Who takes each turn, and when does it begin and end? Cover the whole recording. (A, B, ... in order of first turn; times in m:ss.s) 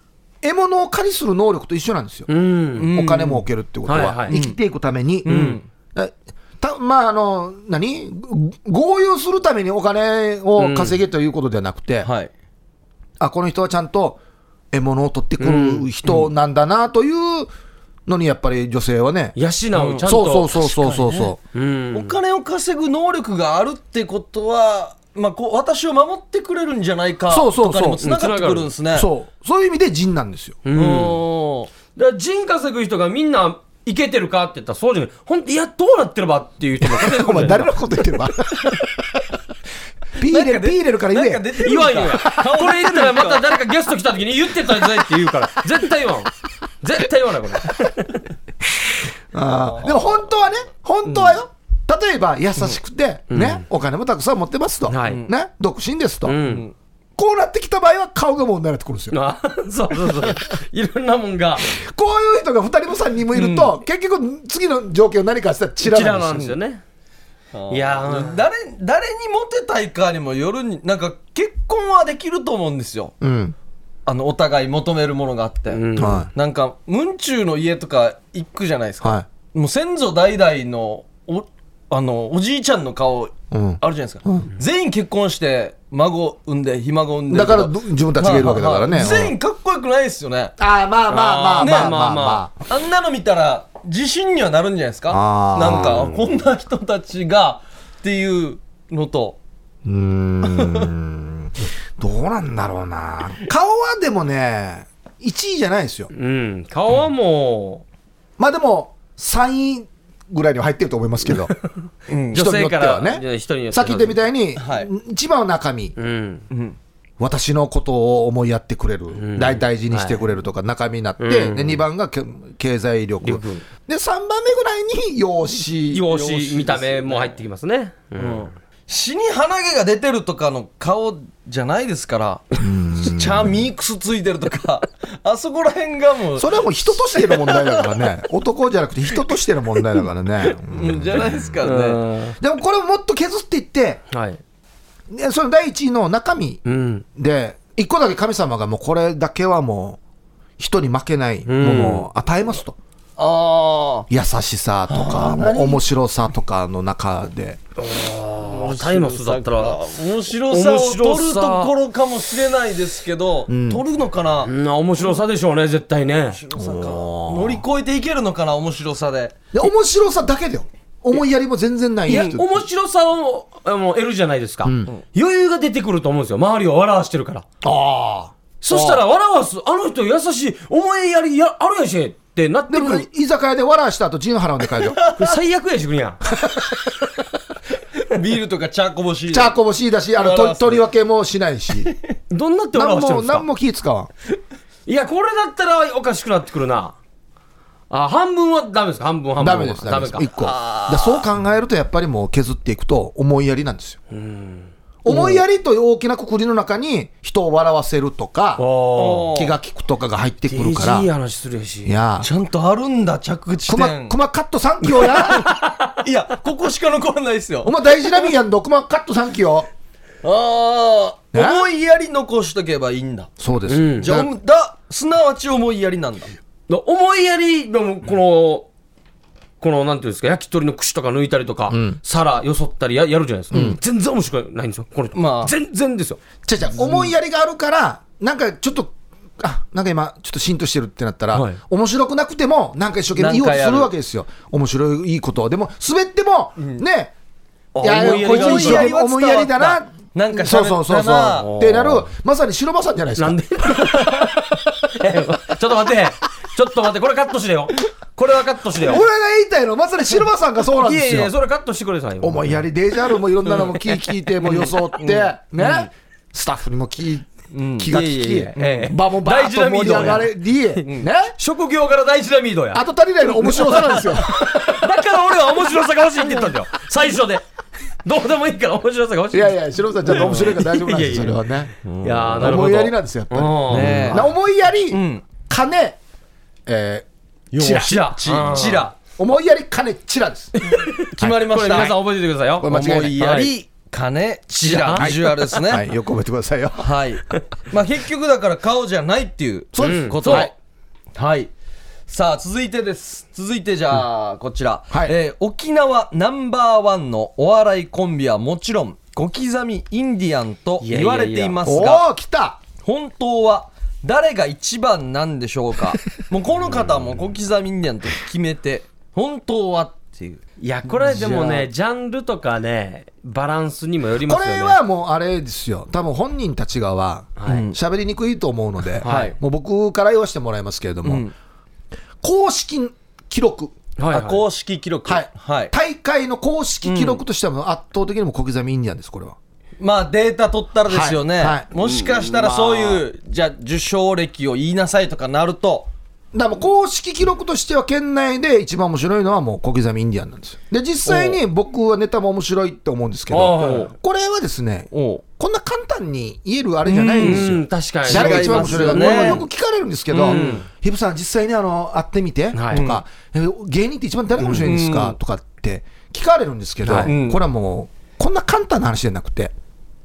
0:00.4-0:02.3 A
0:02.3-0:02.9 B
0:02.8-0:03.5 C
0:02.9-0:05.3 A
0:03.9-0:04.4 B
0:04.3-0:04.6 C
0:05.2-0:05.7 C
0:05.3-0:05.6 B
0:06.0-0:12.1 A
0:12.0-0:12.3 C
0:13.2-0:14.2 A
0:14.7-0:17.5 A
0:15.4-0:15.9 B
0:18.1-0:19.4 A
0:19.4-0:20.5 B
0:19.8-0:21.3 C
0:20.0-0:21.4 A
0:21.5-0:22.2 B
0:21.9-0:29.1 C
0:27.3-0:28.1 A
0:28.0-0:28.7 B
0:28.9-0:30.6 A
0:30.6-0:31.2 B
0:30.7-0:31.7 C
0:32.0-0:37.7 B
0:36.8-0:38.9 A
0:40.2-0:41.7 A
0:40.2-0:43.5 C
0:41.6-0:48.2 B
0:49.3-0:56.4 A
0:49.7-0:50.0 C
0:51.1-0:51.4 C
0:53.3-0:53.6 B
0:54.9-0:55.2 B
0:55.0-0:55.3 C
0:56.2-0:56.7 B
0:56.4-0:56.7 C
0:57.2-0:59.2 A
0:59.1-1:01.6 B
1:01.7-1:06.5 A
1:03.3-1:03.7 C
1:05.8-1:06.8 B
1:07.5-1:13.1 C
1:07.7-1:08.4 B
1:13.2-1:13.6 A
1:14.1-1:30.6 C
1:15.7-1:16.2 B
1:16.0-1:16.3 A
1:19.0-1:19.3 A
1:23.5-1:24.5 A
1:27.3-1:29.4 A
1:30.6-1:32.5 A
1:31.1-1:32.5 B
1:31.6-1:32.0 C
1:32.7-1:39.4 C
1:35.1-1:36.2 A
1:39.8-1:46.1 A
1:40.4-1:40.9 C
1:46.1-1:47.8 B
1:48.4-1:51.5 A
1:52.1-1:52.5 C
1:52.3-1:56.0 A
1:52.3-1:54.2 B
1:54.6-1:54.9 C
1:56.0-1:56.5 B
1:56.5-1:56.8 C
1:57.2-2:06.1 A
1:59.2-2:00.2 B
2:01.2-2:01.8 B
2:03.2-2:03.6 B
2:05.9-2:08.5 B
2:06.1-2:07.4 C
2:08.2-2:17.9 C
2:12.6-2:13.6 A
2:16.4-2:21.6 A
2:20.6-2:22.0 C
2:21.6-2:22.4 B
2:22.4-2:24.0 A
2:24.1-2:24.4 B
2:25.1-2:26.6 A
2:26.7-2:27.0 B
2:27.2-2:30.0 A
2:30.6-2:32.8 A
2:31.5-2:32.1 B
2:33.2-2:34.1 C
2:34.1-2:37.6 A
2:34.9-2:35.8 C
2:37.8-2:41.7 B
2:38.4-2:44.5 C
2:43.5-2:43.8 A
2:44.5-2:46.4 B
2:46.3-2:49.4 C
2:46.6-2:47.6 A
2:49.5-2:52.6 A
2:52.1-2:57.4 B
2:52.1-2:52.4 C
2:54.6-2:54.9 A
2:57.6-2:58.3 A
2:58.6-3:03.1 B
2:58.7-2:59.0 C
3:02.7-3:05.0 A
3:05.0-3:05.3 C
3:05.2-3:06.2 B
3:06.4-3:06.7 A
3:08.0-3:09.6 C
3:09.3-3:11.9 A
3:10.2-3:10.8 C
3:12.3-3:13.5 B
3:12.7-3:14.1 A
3:14.9-3:17.0 B
3:17.9-3:20.3 B
3:19.4-3:24.0 A
3:20.4-3:21.3 C
3:24.1-3:24.7 B
3:25.0-3:28.6 A
3:25.1-3:25.4 C
3:28.6-3:29.3 B
3:29.0-3:29.6 C
3:29.3-3:31.1 A
3:30.5-3:32.0 B
3:31.8-3:32.3 A
3:32.2-3:34.2 C
3:33.7-3:35.4 A
3:35.0-3:35.9 B
3:35.2-3:38.0 C
3:37.6-3:39.7 A
3:40.2-3:43.3 C
3:41.3-3:41.6 A
3:43.4-3:44.3 A
3:43.7-3:44.2 B
3:44.0-3:46.4 C
3:46.7-3:48.7 B
3:49.6-3:56.2 B
3:51.7-3:52.0 A
3:53.5-3:53.8 A
3:55.2-3:55.5 C
3:56.4-4:07.1 A
3:56.7-3:57.1 C
4:01.3-4:01.6 B
4:03.2-4:03.9 C
4:07.8-4:08.9 B
4:07.8-4:13.4 A
4:07.8-4:11.5 C
4:11.4-4:12.1 B
4:13.2-4:19.0 B
4:18.8-4:21.3 A
4:20.8-4:22.6 B
4:22.2-4:31.4 A
4:24.4-4:25.9 C
4:27.5-4:27.9 C
4:27.9-4:30.3 B
4:28.6-4:29.0 C
4:30.8-4:31.1 C
4:31.4-4:32.8 B
4:32.7-4:34.6 A
4:33.4-4:37.5 B
4:38.0-4:39.6 B
4:39.3-4:41.7 A
4:40.1-4:41.4 B
4:41.8-4:42.6 C
4:42.0-4:44.3 B
4:42.4-4:46.0 A
4:43.7-4:44.3 C
4:44.9-4:45.2 C
4:46.7-4:47.9 A
4:47.5-4:48.9 C
4:47.7-4:48.9 B
4:49.2-4:50.6 A
4:50.6-4:52.0 C
4:50.7-4:53.5 B
4:51.2-4:52.0 A
4:52.6-4:53.2 A
4:52.6-4:55.8 C
4:54.5-4:55.6 B
4:55.0-4:57.0 A
4:56.8-5:00.5 C
4:59.7-5:00.5 A
4:59.8-5:00.5 B
5:01.2-5:01.5 C
5:02.1-5:12.1 C
5:10.8-5:11.6 B
5:11.6-5:12.6 A
5:12.8-5:21.7 C
5:20.6-5:24.8 B
5:24.2-5:31.3 A
5:27.4-5:27.6 B
5:27.5-5:27.8 C
5:29.0-5:29.4 C
5:29.0-5:29.4 B
5:31.0-5:31.3 C
5:32.2-5:33.8 A
5:34.0-5:34.4 B
5:34.1-5:35.7 C
5:35.0-5:39.4 A
5:36.8-5:37.2 C
5:39.8-5:45.9 C
5:40.9-5:41.7 A
5:42.0-5:43.0 B
5:46.3-6:09.5 A
5:51.0-5:51.4 C
5:53.3-5:53.9 B
5:53.6-5:53.9 C
5:54.9-5:55.2 C
5:56.9-5:59.4 C
5:57.1-5:59.4 B
6:00.1-6:00.6 C
6:00.2-6:00.6 B
6:02.5-6:02.9 B
6:02.7-6:03.0 C
6:04.4-6:05.2 C
6:06.8-6:07.1 B
6:07.0-6:07.4 C